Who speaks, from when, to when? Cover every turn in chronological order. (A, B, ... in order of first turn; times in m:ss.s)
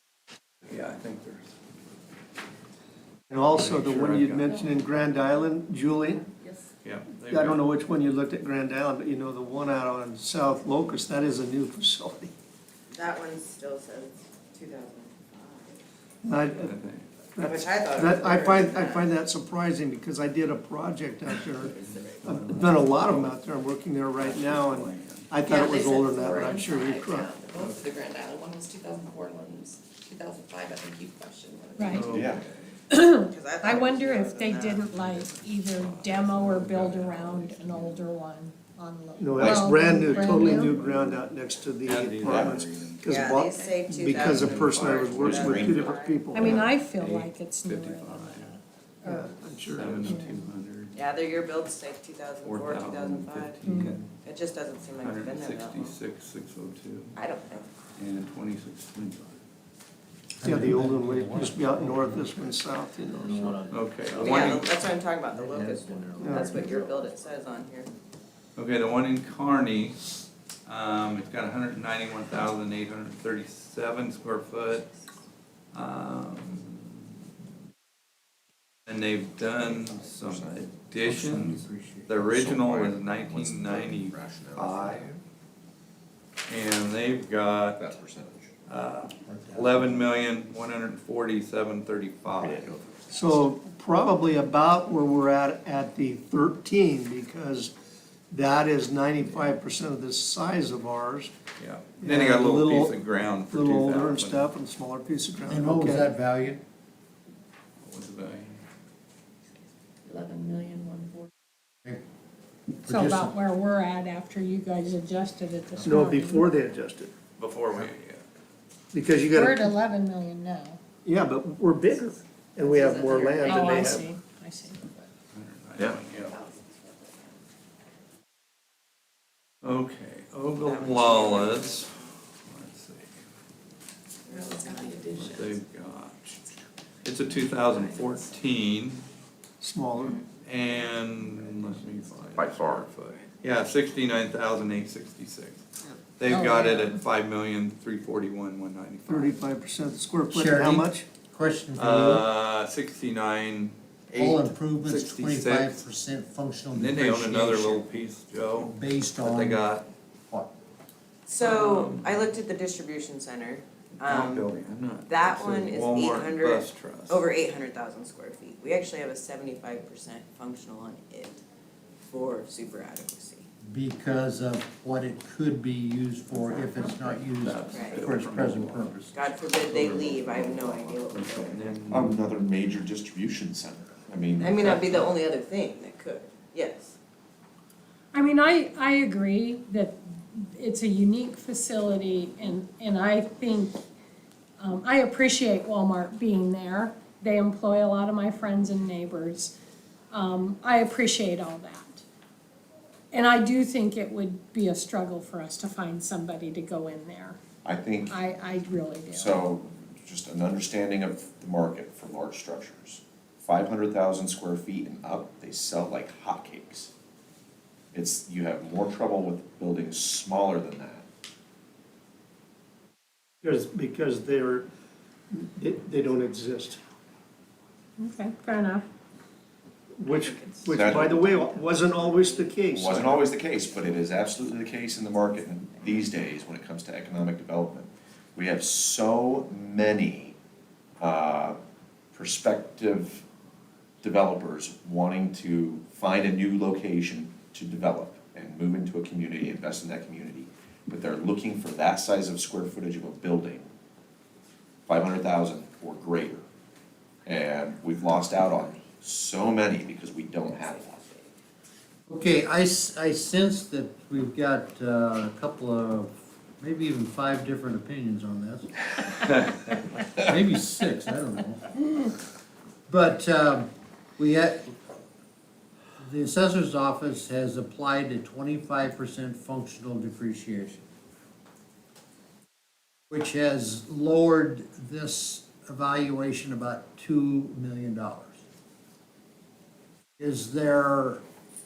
0:00.6-0:01.5 A
0:03.3-0:06.2 B
0:03.5-0:04.6 A
0:04.5-0:04.8 C
0:06.4-0:06.6 C
0:06.8-0:07.6 A
0:07.3-0:12.3 B
0:12.9-0:15.8 D
0:16.2-0:27.3 B
0:16.6-0:17.1 A
0:17.4-0:19.2 D
0:21.6-0:23.4 A
0:24.2-0:25.3 A
0:25.4-0:32.4 C
0:27.5-0:27.9 A
0:31.8-0:32.0 E
0:31.9-0:32.6 A
0:32.0-0:32.4 F
0:32.9-0:40.7 E
0:33.2-0:34.9 D
0:34.9-0:38.1 A
0:39.2-0:46.7 B
0:39.4-0:41.3 A
0:41.8-0:43.3 A
0:42.2-0:42.6 F
0:43.0-0:46.3 D
0:43.5-0:43.8 C
0:44.2-0:45.7 A
0:44.5-0:46.0 F
0:46.3-0:50.5 E
0:47.0-0:48.6 A
0:49.0-0:50.2 B
0:49.6-0:51.0 A
0:50.9-0:53.6 D
0:52.4-0:54.1 A
0:53.6-0:54.0 E
0:54.2-0:56.0 D
0:55.0-0:57.2 A
0:57.1-0:57.7 D
0:58.0-0:59.4 A
1:00.4-1:02.6 G
1:00.4-1:03.6 B
1:03.1-1:04.6 G
1:03.7-1:04.8 A
1:04.1-1:07.9 D
1:05.3-1:07.1 G
1:06.2-1:06.6 B
1:08.5-1:10.0 A
1:10.6-1:14.9 A
1:15.7-1:17.0 A
1:18.8-1:25.1 A
1:19.6-1:20.7 F
1:21.0-1:22.4 G
1:22.3-1:25.1 F
1:26.5-1:27.8 A
1:27.7-1:28.5 F
1:28.7-1:32.7 A
1:29.2-1:30.1 G
1:32.4-1:33.5 F
1:33.1-1:37.7 B
1:38.3-1:41.3 B
1:39.2-1:39.6 A
1:41.6-1:44.5 A
1:42.0-1:46.1 B
1:45.5-1:46.6 G
1:47.8-1:48.6 A
1:50.0-1:51.3 C
1:52.8-1:53.4 G
1:52.8-1:56.6 E
1:55.8-1:57.1 B
1:57.4-1:58.2 A
1:58.9-1:59.7 B
1:59.3-2:00.8 E
2:01.0-2:04.0 B
2:02.6-2:04.0 C
2:03.4-2:05.1 E
2:05.3-2:06.4 A
2:06.1-2:07.4 C
2:09.6-2:13.1 A
2:10.6-2:11.9 D
2:14.3-2:15.6 C
2:14.3-2:15.0 D
2:15.1-2:16.4 A
2:17.0-2:19.0 A
2:17.5-2:18.4 C
2:19.6-2:20.2 B
2:20.4-2:25.6 A
2:21.2-2:22.2 C
2:22.4-2:22.8 F
2:26.2-2:29.3 A
2:26.3-2:27.0 E
2:29.1-2:31.1 B
2:30.3-2:32.3 G
2:31.7-2:35.8 A
2:34.1-2:37.9 G
2:36.7-2:39.9 A
2:38.6-2:39.7 G
2:41.3-2:44.5 D
2:41.4-2:42.3 A
2:44.0-2:47.3 A
2:45.0-2:51.4 D
2:52.1-2:53.4 D
2:53.7-2:59.1 G
2:56.3-3:02.2 A
2:57.7-2:58.1 D
2:59.1-3:01.7 D
3:01.9-3:05.1 F
3:04.4-3:07.0 D
3:04.7-3:05.0 A
3:08.1-3:13.8 E
3:14.6-3:19.5 E
3:20.1-3:22.0 E
3:23.1-3:27.4 E
3:27.6-3:28.2 F
3:28.1-3:29.5 E
3:29.1-3:36.9 F
3:37.9-3:41.0 F
3:43.4-3:44.7 B
3:45.3-3:46.8 B
3:48.0-3:48.8 E
3:50.0-3:53.3 B
3:50.1-3:52.6 D
3:50.8-3:51.1 F
3:52.7-4:00.4 F
3:53.4-3:53.8 D
4:01.0-4:01.6 F
4:02.1-4:03.2 F
4:04.0-4:13.7 F
4:14.9-4:16.4 F
4:17.2-4:21.0 F
4:22.1-4:28.8 G
4:30.2-4:32.2 G
4:32.9-4:34.8 G
4:36.0-4:40.8 G
4:43.1-4:48.4 G
4:50.2-4:51.2 G